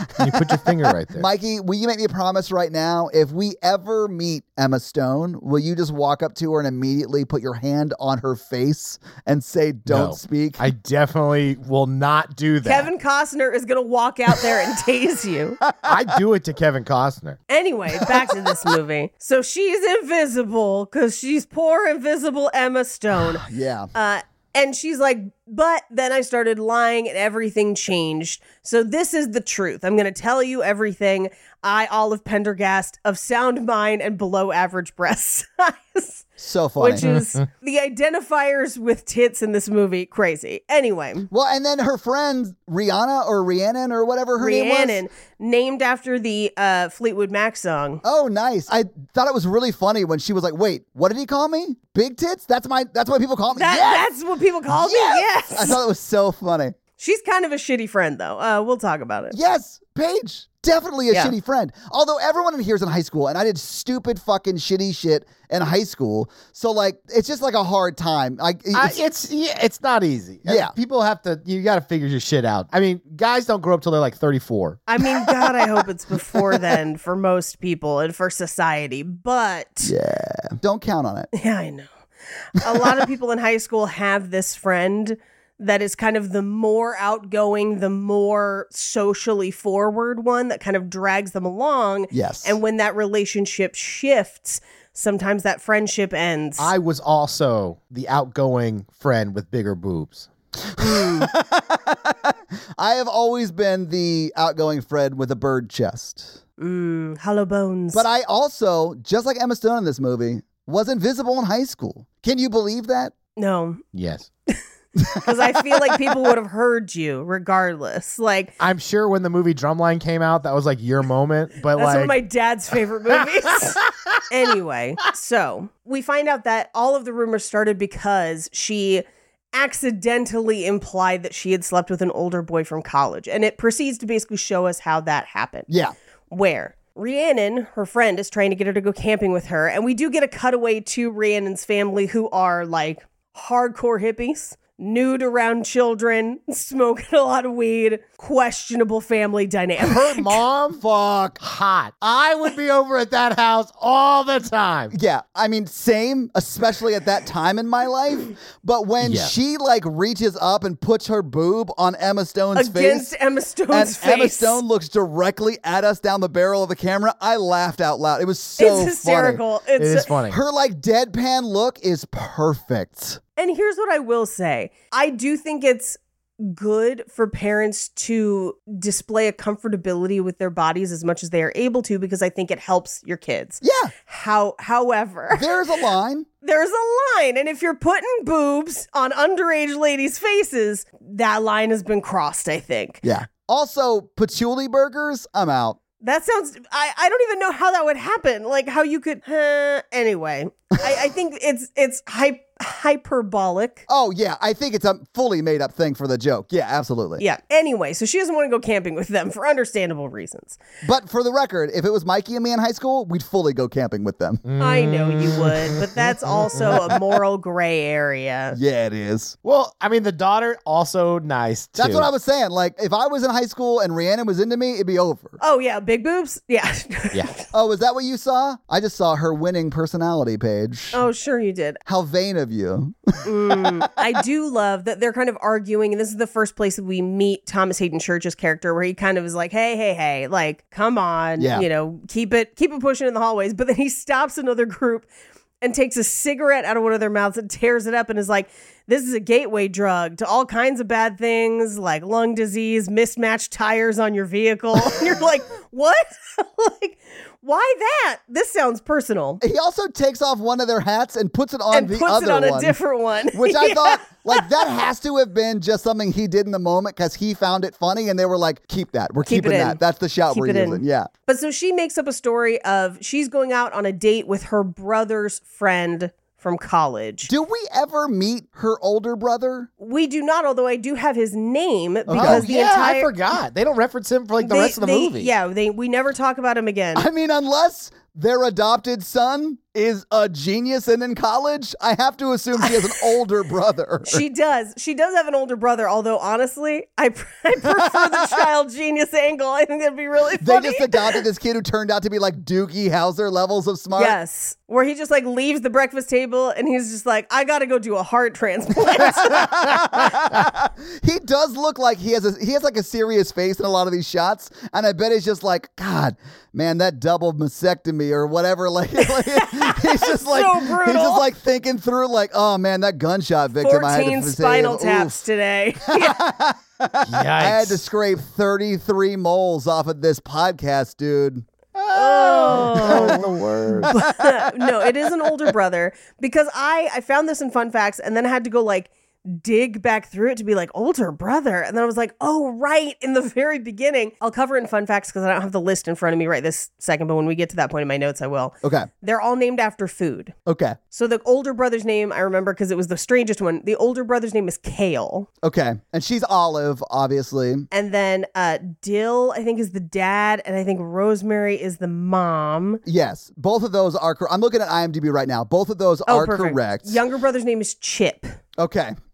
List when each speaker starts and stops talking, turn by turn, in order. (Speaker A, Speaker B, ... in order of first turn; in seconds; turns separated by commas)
Speaker A: 0.2-1.2, Speaker B: 0.2-10.7, Speaker A: 9.9-12.9, Speaker C: 12.6-15.6, Speaker B: 15.7-16.0, Speaker A: 15.8-17.4, Speaker C: 17.5-41.3, Speaker B: 18.1-18.7, Speaker B: 23.1-23.9, Speaker B: 36.4-37.0, Speaker A: 37.0-37.4, Speaker B: 41.3-45.0, Speaker C: 44.4-48.0, Speaker B: 48.0-54.1, Speaker C: 53.5-55.8, Speaker B: 54.7-56.8, Speaker C: 57.0-59.4, Speaker B: 59.3-69.0, Speaker A: 68.7-74.8, Speaker B: 70.5-70.7, Speaker C: 74.9-79.9, Speaker B: 79.8-81.3, Speaker C: 81.3-81.9, Speaker C: 82.5-96.7, Speaker B: 92.1-92.6, Speaker A: 96.6-100.3, Speaker B: 100.8-106.4, Speaker C: 106.6-108.0, Speaker B: 107.9-113.1, Speaker C: 113.4-113.8, Speaker A: 113.9-114.3, Speaker C: 115.1-118.5, Speaker A: 118.6-122.2, Speaker C: 121.8-135.7, Speaker A: 123.8-124.2, Speaker B: 135.7-135.9, Speaker C: 136.3-150.4, Speaker A: 149.8-150.8, Speaker B: 150.8-151.4, Speaker A: 151.4-154.9, Speaker B: 154.9-163.1, Speaker A: 159.0-159.3, Speaker C: 162.5-164.6, Speaker B: 163.7-169.4, Speaker C: 168.6-170.1, Speaker A: 169.8-170.4, Speaker B: 170.3-173.2, Speaker C: 173.4-185.6, Speaker B: 183.6-183.9, Speaker B: 185.3-186.3, Speaker C: 186.4-193.0, Speaker B: 193.0-195.8, Speaker C: 196.0-203.8, Speaker B: 203.9-207.2, Speaker C: 207.2-210.6, Speaker B: 210.8-214.4, Speaker A: 214.4-217.0, Speaker C: 214.6-218.6, Speaker B: 218.5-219.3, Speaker A: 219.4-222.1, Speaker B: 221.8-225.4, Speaker C: 225.4-227.4, Speaker B: 227.5-231.0, Speaker C: 230.9-231.8, Speaker B: 231.8-233.7, Speaker C: 233.2-245.1, Speaker B: 241.4-241.7, Speaker C: 245.6-259.4, Speaker B: 259.4-262.8, Speaker C: 261.7-264.5, Speaker B: 263.3-271.1, Speaker C: 269.2-277.3, Speaker B: 277.2-279.7, Speaker C: 279.8-283.1, Speaker B: 282.1-282.4, Speaker A: 282.1-285.3, Speaker C: 284.4-287.1, Speaker B: 286.9-294.2, Speaker C: 294.1-301.2, Speaker B: 297.7-298.3, Speaker B: 300.4-304.2, Speaker C: 303.9-309.6, Speaker B: 309.1-325.2, Speaker C: 319.0-321.2, Speaker C: 323.6-326.2, Speaker B: 325.9-331.4, Speaker A: 327.0-327.8, Speaker A: 331.8-333.9, Speaker C: 331.9-333.2, Speaker B: 332.5-333.2, Speaker B: 333.7-334.5, Speaker C: 333.9-350.3, Speaker B: 348.6-348.9, Speaker B: 350.4-350.8, Speaker C: 350.9-355.3, Speaker B: 355.4-357.7, Speaker C: 357.7-362.8, Speaker B: 362.8-367.0, Speaker C: 366.1-368.4, Speaker B: 368.6-368.9